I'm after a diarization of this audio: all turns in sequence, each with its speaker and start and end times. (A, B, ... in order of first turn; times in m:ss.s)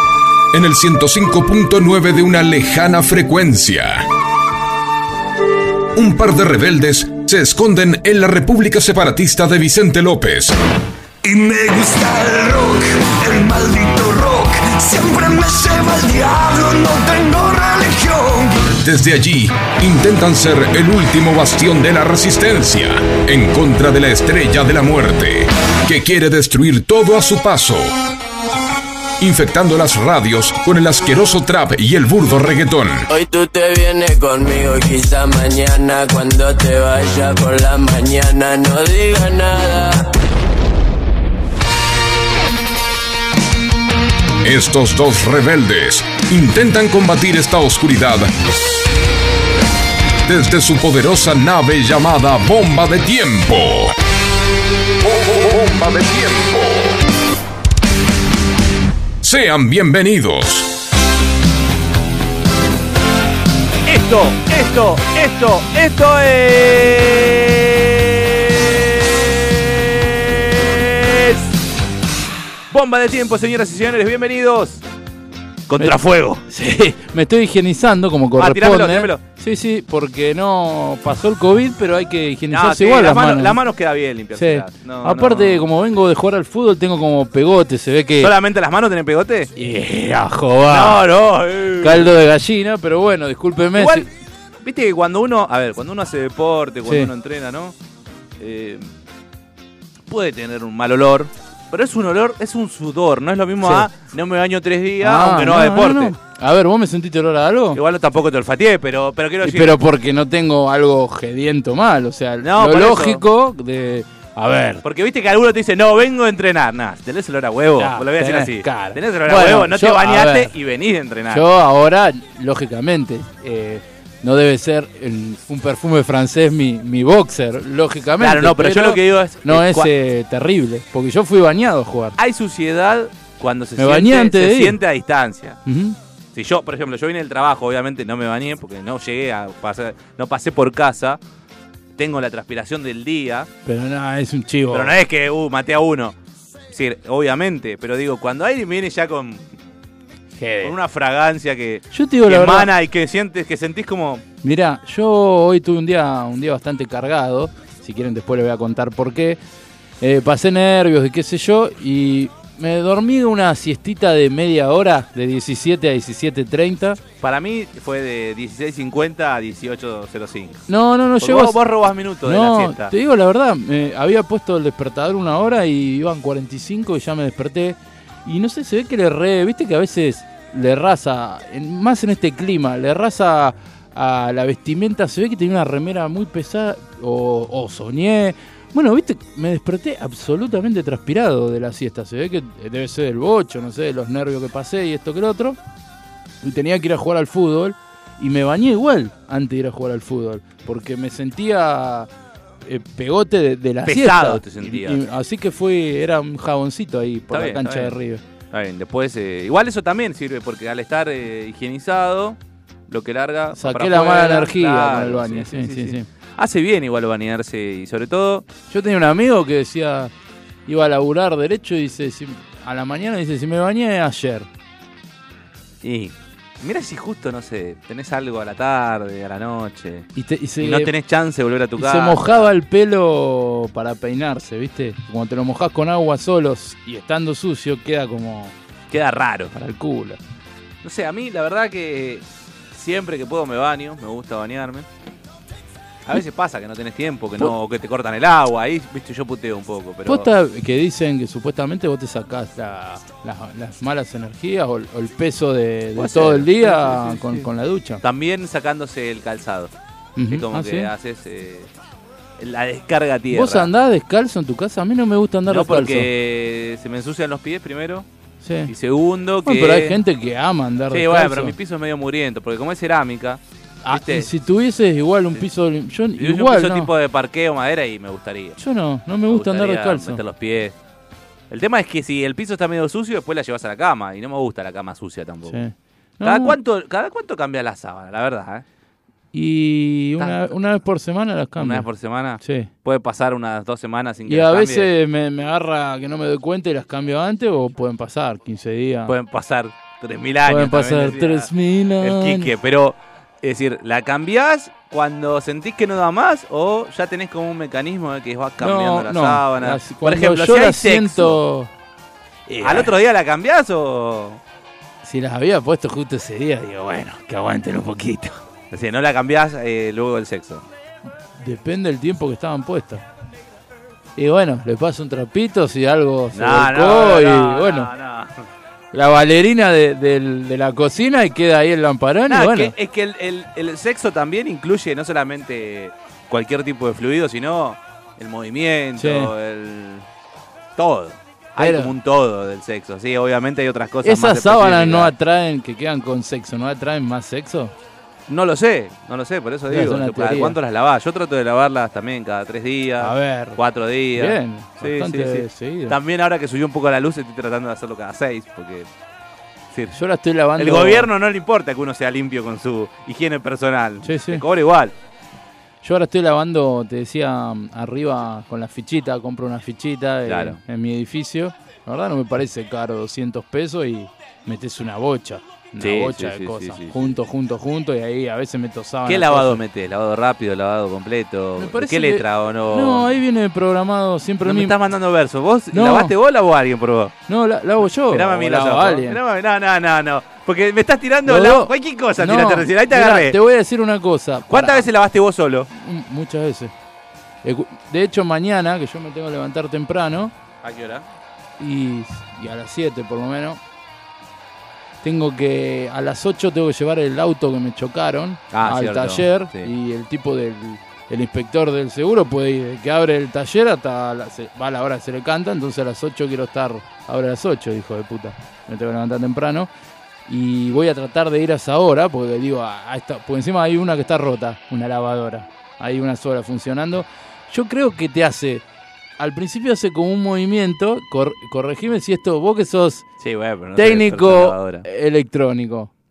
0:00.5-0:04.1 A
0:06.0-0:10.6 A
0:11.2-0:18.8 B
0:18.8-0:28.0 A
0:29.2-0:33.0 A
0:33.1-0:40.1 C
0:44.4-0:48.3 A
0:50.2-0:54.0 A
0:55.0-0:57.0 A
0:59.2-1:00.7 A
1:03.9-1:11.5 D
1:12.7-1:14.8 D
1:15.7-1:16.4 D
1:16.5-1:23.6 E
1:18.4-1:19.2 D
1:22.5-1:25.7 D
1:24.3-1:28.3 E
1:28.2-1:29.5 D
1:29.6-1:31.0 E
1:30.7-1:32.1 D
1:31.8-1:34.1 E
1:33.8-1:34.1 D
1:34.6-1:37.7 D
1:38.4-1:38.9 D
1:40.1-1:46.1 D
1:43.6-1:43.9 E
1:45.0-1:47.8 E
1:47.7-1:49.8 D
1:49.4-1:54.8 E
1:52.4-1:53.2 D
1:54.8-2:01.5 D
1:57.8-2:00.5 E
2:01.3-2:12.2 E
2:08.2-2:09.9 D
2:12.2-2:15.6 D
2:13.8-2:14.8 E
2:15.7-2:16.0 E
2:16.4-2:21.2 D
2:22.0-2:23.5 D
2:23.7-2:24.9 E
2:24.7-2:26.2 D
2:26.7-2:29.5 D
2:30.4-2:30.8 E
2:30.6-2:34.2 D
2:31.9-2:32.7 E
2:34.4-2:39.4 E
2:40.0-2:47.0 E
2:47.2-2:50.7 D
2:50.7-2:51.6 E
2:51.2-2:52.9 D
2:52.2-3:15.6 E
3:16.4-3:22.1 E
3:22.6-3:28.2 E
3:23.8-3:25.0 D
3:27.3-3:28.0 D
3:28.5-3:38.5 D
3:33.6-3:36.1 E
3:38.7-3:40.1 E
3:40.7-3:44.5 E
3:45.8-3:50.1 D
3:50.2-3:50.9 E
3:50.6-3:52.5 D
3:51.8-3:58.5 E
3:58.9-3:59.5 D
3:59.5-4:00.2 E
4:00.8-4:04.9 D
4:06.1-4:10.3 D
4:10.1-4:18.0 E
4:16.0-4:17.5 D
4:18.0-4:19.7 D
4:20.2-4:20.9 E
4:20.3-4:21.7 D
4:22.4-4:23.7 D
4:23.3-4:26.1 E
4:25.5-4:28.1 D
4:28.4-4:28.7 E
4:28.7-4:30.0 D
4:29.4-4:31.6 E
4:30.9-4:34.3 D
4:33.8-4:36.9 E
4:36.2-4:38.6 D
4:38.6-4:40.2 E
4:39.3-4:40.8 D
4:41.5-4:45.6 D
4:45.5-4:46.6 E
4:46.2-4:48.6 D
4:49.3-4:51.9 E
4:51.6-4:54.9 D
4:52.4-4:52.7 E
4:54.3-4:59.2 E
4:59.1-5:11.4 D
5:00.5-5:02.5 E
5:08.6-5:11.7 E
5:12.5-5:12.9 E
5:12.6-5:14.4 D
5:15.0-5:18.4 E
5:18.7-5:20.6 D
5:21.4-5:23.0 E
5:24.2-5:27.9 E
5:26.3-5:28.4 D
5:28.9-5:32.7 E
5:32.3-5:40.0 D
5:39.0-5:39.3 E
5:40.8-5:45.1 D
5:41.6-5:41.9 E
5:44.0-5:47.7 E
5:48.3-5:58.9 D
5:49.7-5:50.6 E
5:53.0-5:53.6 E
5:54.2-5:56.0 E
5:59.7-6:00.0 D
5:59.9-6:01.1 E
6:00.6-6:04.9 D
6:04.0-6:04.4 E
6:05.8-6:19.6 E
6:10.3-6:10.6 D
6:15.8-6:17.0 D
6:19.1-6:23.1 D
6:21.6-6:24.8 E
6:24.4-6:27.2 D
6:25.7-6:26.1 E
6:27.3-6:29.2 E
6:28.0-6:33.4 D
6:31.3-6:34.9 E
6:34.5-6:35.7 D
6:35.7-6:36.7 E
6:37.4-6:40.3 E
6:40.6-6:41.0 D
6:41.6-6:43.6 E
6:45.0-6:59.7 E
6:48.5-6:49.7 D
7:00.3-7:08.6 E
7:09.2-7:13.0 E
7:13.2-7:14.8 D
7:13.8-7:15.9 E